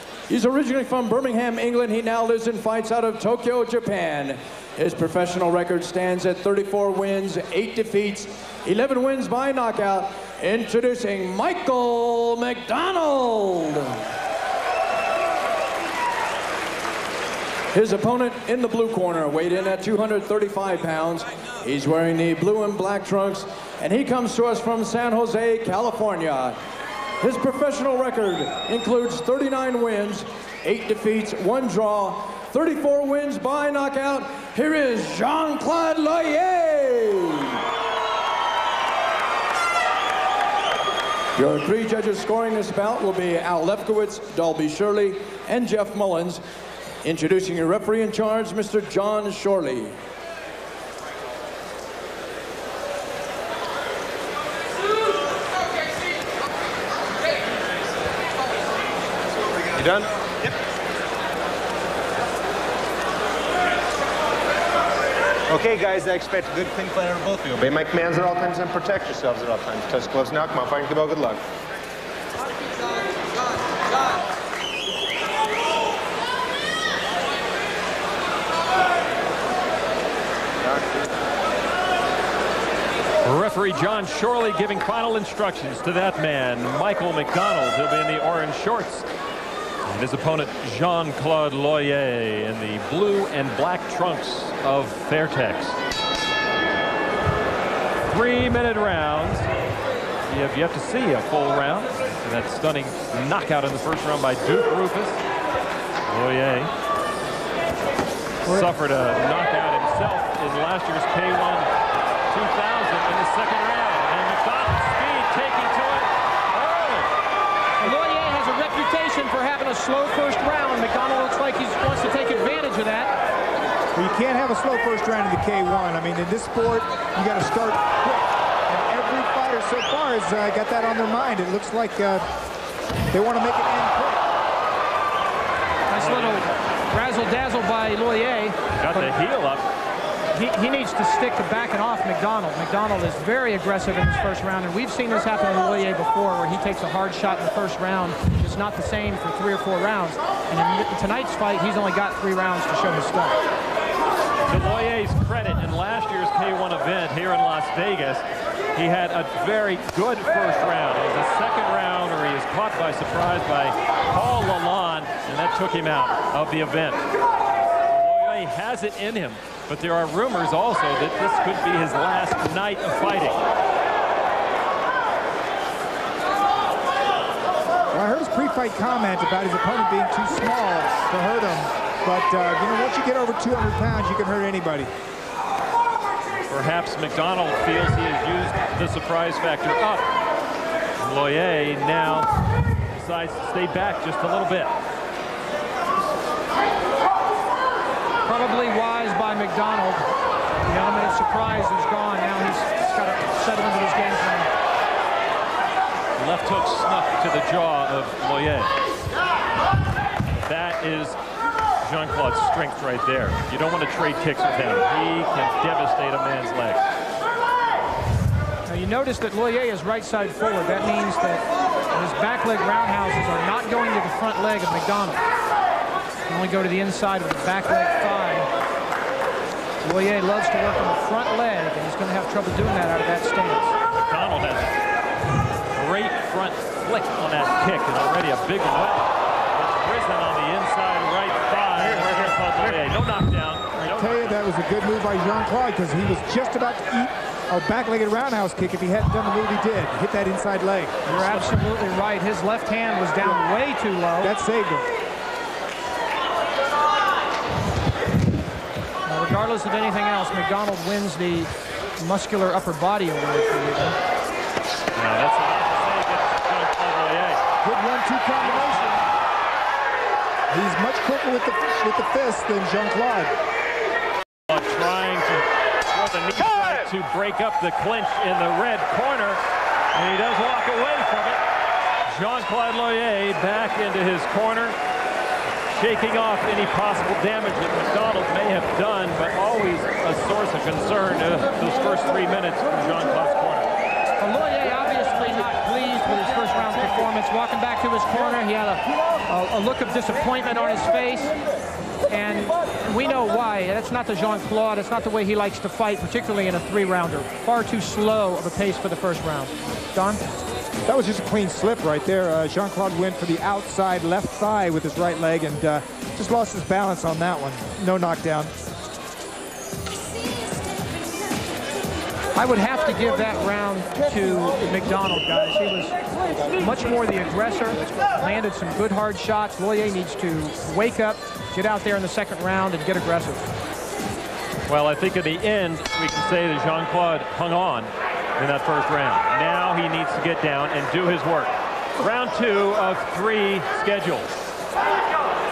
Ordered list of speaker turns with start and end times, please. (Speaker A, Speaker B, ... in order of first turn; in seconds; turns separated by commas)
Speaker A: 0.3-14.0, Speaker A: 17.7-26.6, Speaker A: 27.2-37.6, Speaker A: 41.4-46.4, Speaker A: 47.0-50.0, Speaker B: 59.8-60.5, Speaker B: 65.5-71.4, Speaker C: 83.2-89.0, Speaker C: 89.8-95.8, Speaker C: 98.1-99.5, Speaker C: 100.3-105.2, Speaker C: 106.1-106.7, Speaker C: 108.4-111.7, Speaker C: 112.3-117.1, Speaker D: 117.8-123.1, Speaker E: 123.9-132.2, Speaker E: 133.1-134.2, Speaker D: 135.9-139.1, Speaker C: 135.9-136.6, Speaker C: 138.8-139.6, Speaker D: 140.3-153.4, Speaker C: 154.5-158.2, Speaker C: 158.7-167.1, Speaker C: 167.9-173.4, Speaker E: 177.9-184.9, Speaker C: 186.5-190.1, Speaker C: 191.0-192.3, Speaker C: 192.9-194.7, Speaker D: 198.2-200.0, Speaker D: 200.6-204.5, Speaker C: 206.2-208.7, Speaker C: 210.3-211.2, Speaker C: 211.8-216.8, Speaker D: 218.7-225.2, Speaker D: 226.3-228.5, Speaker D: 229.8-233.7, Speaker C: 233.9-234.8, Speaker C: 235.7-244.2, Speaker E: 242.0-242.3, Speaker E: 243.8-251.0, Speaker D: 251.1-254.3, Speaker C: 251.2-251.4, Speaker E: 254.2-254.9, Speaker D: 259.1-264.0, Speaker C: 264.9-267.4, Speaker E: 267.6-269.0, Speaker E: 270.5-273.3, Speaker C: 274.5-279.4, Speaker C: 279.9-281.4, Speaker C: 282.1-284.8, Speaker C: 285.7-293.7, Speaker D: 294.2-301.3, Speaker D: 302.1-310.2, Speaker E: 310.9-318.5, Speaker D: 322.3-326.0, Speaker D: 326.5-333.5, Speaker C: 334.7-344.3